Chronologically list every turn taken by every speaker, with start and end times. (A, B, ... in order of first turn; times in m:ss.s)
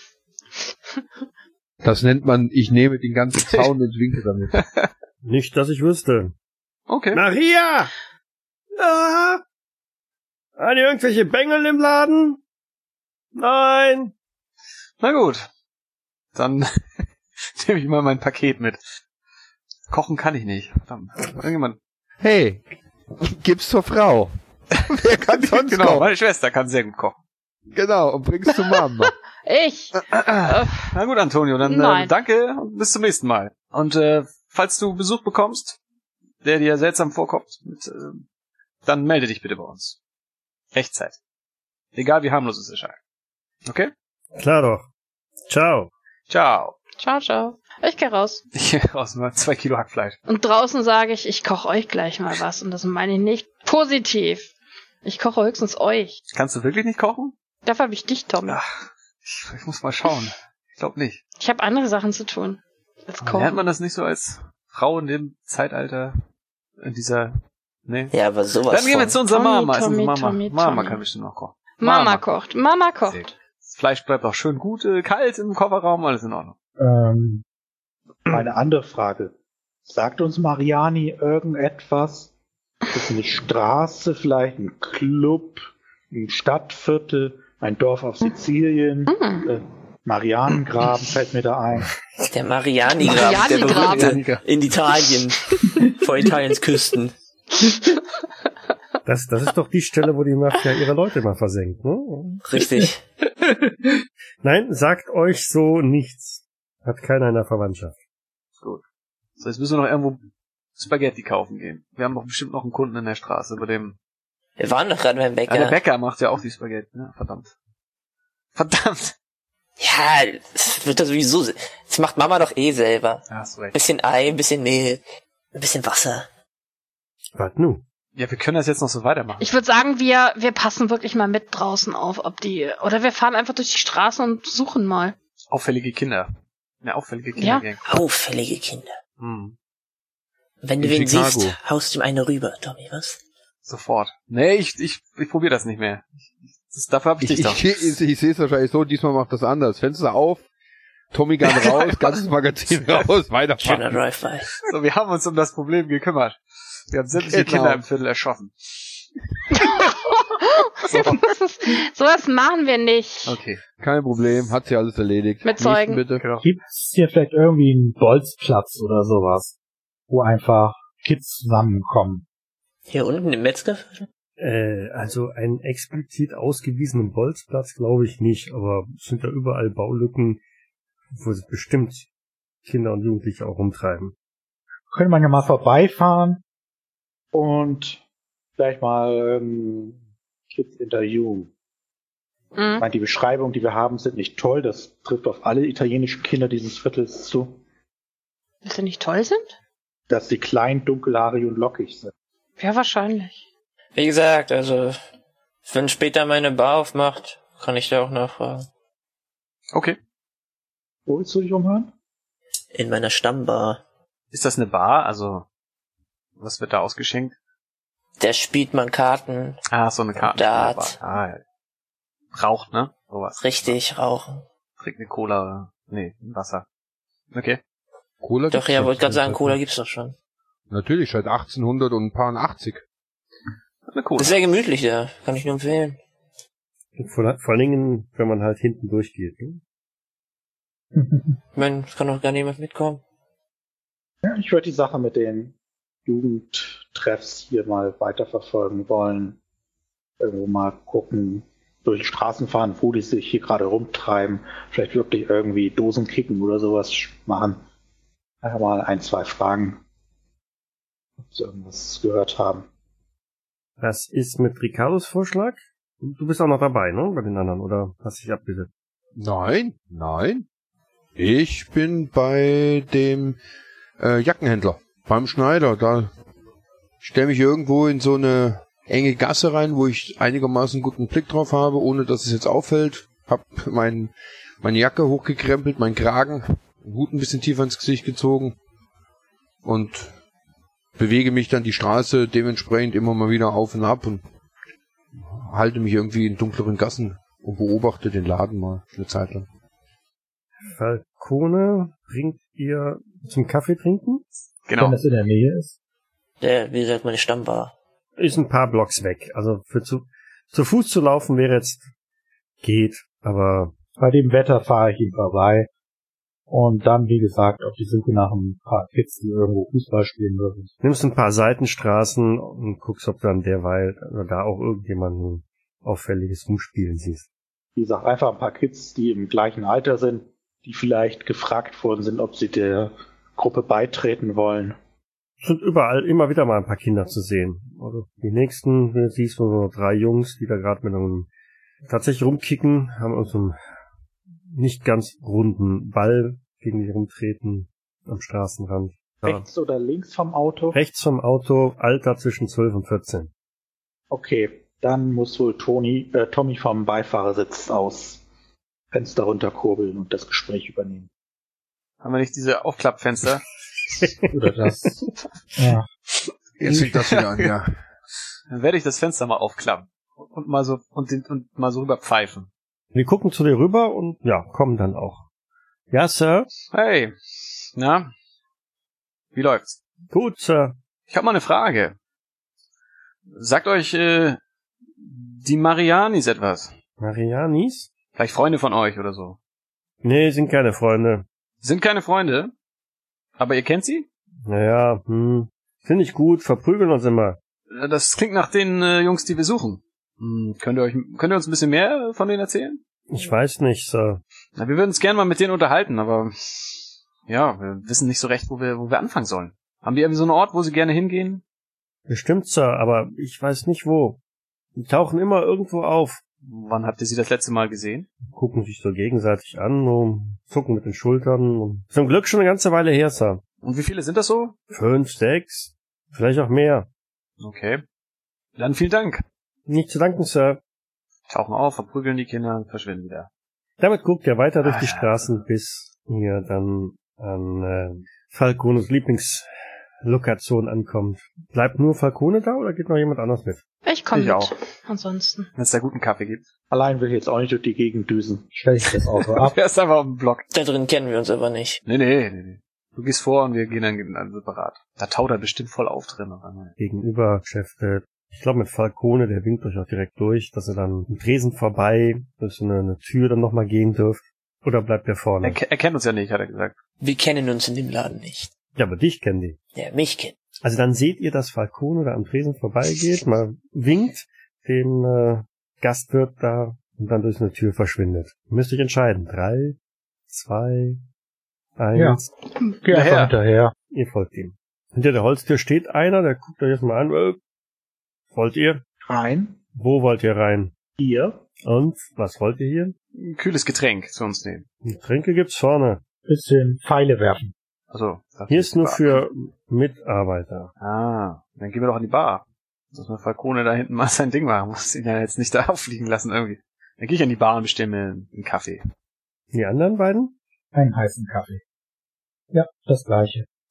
0:01.8-0:04.6 A
0:03.4-0:03.7 B
0:04.5-0:04.9 B
0:05.2-0:06.3 C
0:06.9-0:07.2 B
0:07.1-0:07.9 C
0:08.8-0:09.4 C
0:10.6-0:12.4 C
0:13.4-0:14.1 C
0:15.0-0:15.5 B
0:16.4-0:18.8 B
0:19.9-0:21.8 B
0:22.2-0:22.6 A
0:23.2-0:24.3 A
0:24.7-0:27.2 B
0:24.9-0:26.1 A
0:27.7-0:29.1 A
0:28.7-0:30.9 D
0:30.1-0:30.5 A
0:30.9-0:35.8 B
0:31.6-0:32.1 D
0:36.4-0:38.2 B
0:38.8-0:40.0 B
0:40.7-0:41.2 B
0:42.0-0:43.0 B
0:44.4-0:44.9 C
0:45.5-0:45.9 C
0:46.3-0:46.8 B
0:47.0-0:48.4 D
0:48.5-0:50.2 B
0:50.3-0:54.5 D
0:55.0-0:56.2 D
0:56.3-0:57.3 B
0:57.6-0:58.6 D
0:58.5-1:01.2 B
1:01.4-1:03.6 D
1:03.2-1:06.2 B
1:06.8-1:08.1 B
1:08.1-1:09.2 E
1:08.7-1:12.2 B
1:09.3-1:11.0 D
1:11.8-1:13.3 D
1:13.1-1:16.5 B
1:16.8-1:17.4 F
1:18.3-1:19.3 F
1:19.9-1:22.3 F
1:22.9-1:31.9 F
1:29.1-1:29.5 D
1:32.3-1:37.1 E
1:33.0-1:34.2 D
1:33.4-1:34.4 B
1:37.6-1:38.0 D
1:39.1-1:42.4 C
1:42.4-1:43.0 E
1:44.4-1:48.0 C
1:49.4-1:50.2 B
1:50.8-1:54.0 B
1:54.6-1:55.8 E
1:55.5-1:57.5 B
1:58.6-1:59.1 B
1:59.8-2:05.0 E
2:03.3-2:03.8 B
2:05.5-2:06.3 E
2:07.4-2:07.8 C
2:08.2-2:09.5 B
2:09.4-2:15.2 D
2:15.5-2:16.3 B
2:16.8-2:17.9 B
2:17.4-2:17.7 D
2:17.8-2:19.0 E
2:19.2-2:19.6 B
2:20.6-2:23.2 E
2:20.8-2:21.6 A
2:23.7-2:27.9 B
2:27.2-2:30.4 A
2:31.1-2:33.9 A
2:31.4-2:32.2 B
2:33.6-2:34.5 E
2:34.6-2:36.4 B
2:36.9-2:39.0 B
2:37.2-2:37.8 A
2:39.5-2:43.4 D
2:43.3-2:43.6 B
2:43.8-2:46.3 A
2:45.4-2:46.0 D
2:46.2-2:46.4 B
2:46.4-2:49.6 F
2:50.1-2:52.2 F
2:52.9-2:54.1 E
2:54.4-3:00.4 C
3:01.1-3:02.1 C
3:02.7-3:04.2 C
3:04.9-3:06.4 F
3:07.3-3:08.0 F
3:08.6-3:10.0 F
3:10.5-3:11.5 F
3:12.6-3:12.9 D
3:12.8-3:17.6 F
3:18.6-3:19.6 D
3:20.1-3:22.1 F
3:22.6-3:23.4 D
3:24.0-3:25.0 E
3:25.7-3:28.7 E
3:31.1-3:31.9 F
3:32.7-3:33.8 E
3:34.3-3:35.5 B
3:36.4-3:37.4 B
3:38.2-3:39.6 E
3:39.7-3:41.4 B
3:40.2-3:41.0 E
3:42.3-3:43.8 B
3:43.4-3:44.4 E
3:44.8-3:46.6 B
3:47.3-3:47.6 B
3:48.2-3:49.6 A
3:48.5-3:50.2 E
3:50.7-3:52.8 A
3:53.9-3:54.4 B
3:54.2-3:56.0 E
3:57.0-3:59.6 C
4:01.0-4:01.4 F
4:01.6-4:03.0 E
4:04.2-4:05.6 F
4:06.1-4:09.4 F
4:10.2-4:17.6 F
4:18.4-4:19.8 F
4:21.2-4:22.7 F
4:23.8-4:28.7 C
4:29.2-4:30.4 A
4:31.2-4:33.4 A
4:34.0-4:36.1 A
4:37.0-4:48.6 A
4:49.6-4:50.1 A
4:51.0-4:54.2 A
4:55.2-4:59.5 A
5:00.7-5:04.2 C
5:04.7-5:05.0 B
5:04.8-5:05.7 F
5:06.4-5:07.7 E
5:08.2-5:11.8 C
5:12.6-5:13.8 C
5:14.0-5:15.7 F
5:16.5-5:20.7 F
5:20.8-5:27.3 C
5:27.8-5:34.8 F
5:35.4-5:41.3 C
5:41.8-5:43.6 C
5:44.5-5:49.5 C
5:49.2-5:50.8 F
5:50.7-5:53.3 C
5:54.1-5:58.2 F
5:58.9-6:01.1 F
6:02.0-6:03.4 B
6:04.0-6:04.3 C
6:04.3-6:05.9 F
6:06.6-6:07.8 A
6:06.7-6:07.5 B
6:08.5-6:12.5 B
6:12.9-6:15.2 C
6:15.9-6:16.5 C
6:16.7-6:18.1 B
6:19.3-6:19.8 B
6:20.1-6:20.8 C
6:21.1-6:22.0 B
6:23.3-6:24.4 B
6:25.0-6:26.7 B
6:27.0-6:27.9 C
6:28.2-6:29.4 B
6:30.0-6:31.3 C
6:31.6-6:32.5 B
6:33.4-6:34.1 B
6:34.4-6:37.4 C
6:37.7-6:42.8 B
6:43.1-6:44.2 C
6:44.6-6:51.4 B
6:52.1-6:54.2 C
6:54.8-6:56.2 C
6:56.4-6:58.1 B
6:58.3-7:03.4 C
7:03.6-7:04.6 B
7:04.7-7:06.9 C
7:07.4-7:07.8 B
7:08.6-7:09.2 B
7:09.7-7:10.6 C
7:11.3-7:13.3 B
7:13.8-7:19.5 C
7:14.6-7:15.1 B
7:20.0-7:23.6 C
7:23.8-7:25.5 D
7:24.1-7:24.5 B
7:25.6-7:26.4 B
7:26.7-7:29.6 F
7:29.2-7:30.5 B
7:30.5-7:31.8 E
7:31.9-7:36.7 B
7:36.8-7:45.6 C
7:45.4-7:46.8 B
7:47.0-7:48.5 E
7:48.8-7:49.6 C
7:49.8-7:50.4 E
7:50.6-7:59.8 C
8:00.3-8:01.0 C
8:01.8-8:02.3 C
8:02.0-8:03.7 F
8:02.9-8:03.4 B
8:03.9-8:07.4 C
8:08.3-8:08.8 C
8:09.0-8:09.6 F
8:09.8-8:10.7 C
8:11.0-8:11.4 F
8:11.6-8:13.0 C
8:13.2-8:14.7 B
8:14.8-8:16.0 C
8:16.3-8:17.5 F
8:17.9-8:19.2 B
8:18.5-8:20.7 C
8:20.8-8:28.8 B
8:29.5-8:30.4 C
8:30.7-8:31.6 F
8:32.5-8:33.5 F